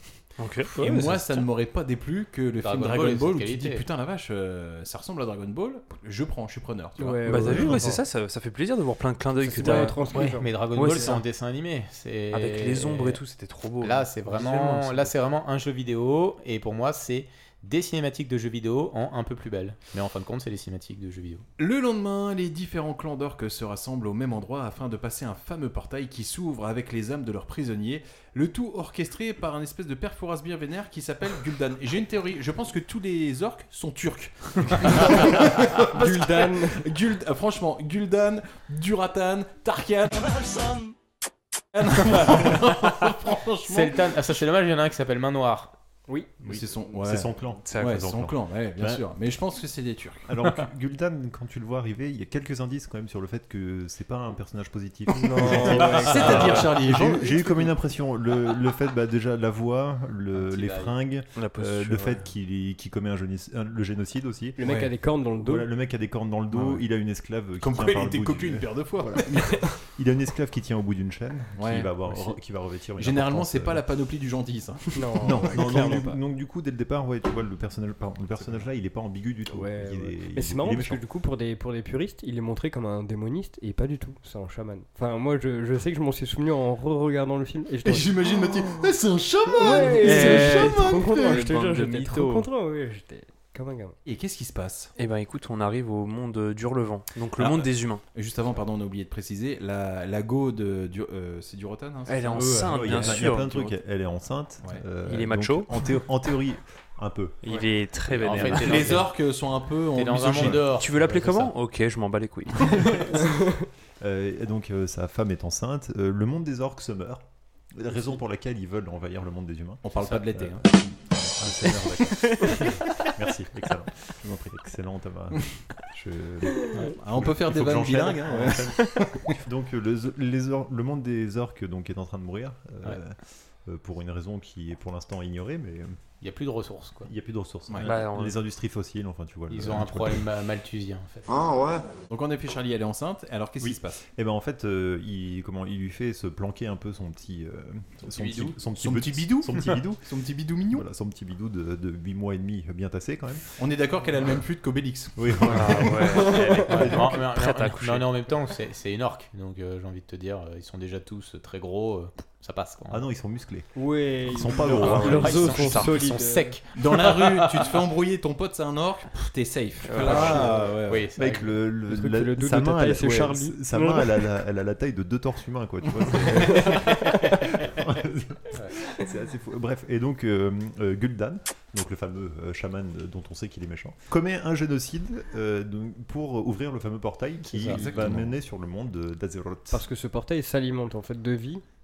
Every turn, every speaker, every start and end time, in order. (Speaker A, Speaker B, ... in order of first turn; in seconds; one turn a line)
Speaker A: 0.4-0.8
Speaker B: 0.8-1.0
Speaker C: 0.8-7.7
Speaker B: 2.6-3.8
Speaker D: 7.0-8.0
Speaker A: 7.2-11.2
Speaker D: 9.4-11.2
Speaker B: 9.6-13.2
Speaker A: 12.3-15.1
Speaker B: 13.8-21.4
Speaker C: 21.6-40.4
Speaker D: 34.9-35.3
Speaker D: 35.9-36.9
Speaker C: 41.7-44.1
Speaker B: 43.7-45.7
Speaker D: 46.1-46.3
Speaker C: 46.4-50.3
Speaker E: 47.0-49.0
Speaker A: 47.7-48.0
Speaker E: 50.3-64.7
Speaker D: 55.1-56.3
Speaker B: 55.3-56.8
Speaker C: 55.9-57.5
Speaker B: 60.3-60.9
Speaker A: 61.3-62.2
Speaker D: 64.6-65.7
Speaker C: 64.6-64.9
Speaker E: 65.4-73.8
Speaker C: 66.5-66.8
Speaker C: 67.6-69.4
Speaker C: 71.6-71.9
Speaker C: 73.0-75.2
Speaker D: 74.9-76.2
Speaker E: 75.2-81.0
Speaker D: 79.5-88.1
Speaker C: 87.8-91.5
Speaker D: 89.5-94.0
Speaker A: 89.8-92.5
Speaker C: 94.0-94.9
Speaker A: 95.0-98.0
Speaker C: 97.4-103.4
Speaker A: 102.1-103.8
Speaker E: 102.3-107.4
Speaker A: 105.1-105.7
Speaker A: 107.4-109.0
Speaker B: 108.1-109.2
Speaker C: 108.3-110.7
Speaker B: 109.9-111.5
Speaker A: 110.7-113.4
Speaker E: 114.0-136.0
Speaker C: 119.8-121.9
Speaker C: 126.9-129.1
Speaker B: 136.2-137.1
Speaker E: 137.0-140.3
Speaker A: 137.8-138.4
Speaker B: 139.5-141.5
Speaker C: 142.1-144.0
Speaker E: 143.6-150.1
Speaker C: 148.1-150.8
Speaker E: 150.7-153.6
Speaker C: 153.6-156.3
Speaker E: 155.2-157.1
Speaker A: 155.5-158.1
Speaker B: 156.7-163.1
Speaker E: 162.9-165.7
Speaker D: 163.7-166.6
Speaker B: 164.5-167.7
Speaker A: 164.7-166.2
Speaker C: 166.7-171.1
Speaker A: 169.9-170.4
Speaker E: 170.0-189.8
Speaker B: 170.0-171.6
Speaker D: 171.9-174.3
Speaker D: 176.6-177.0
Speaker B: 187.5-188.0
Speaker C: 187.7-188.3
Speaker D: 189.7-191.6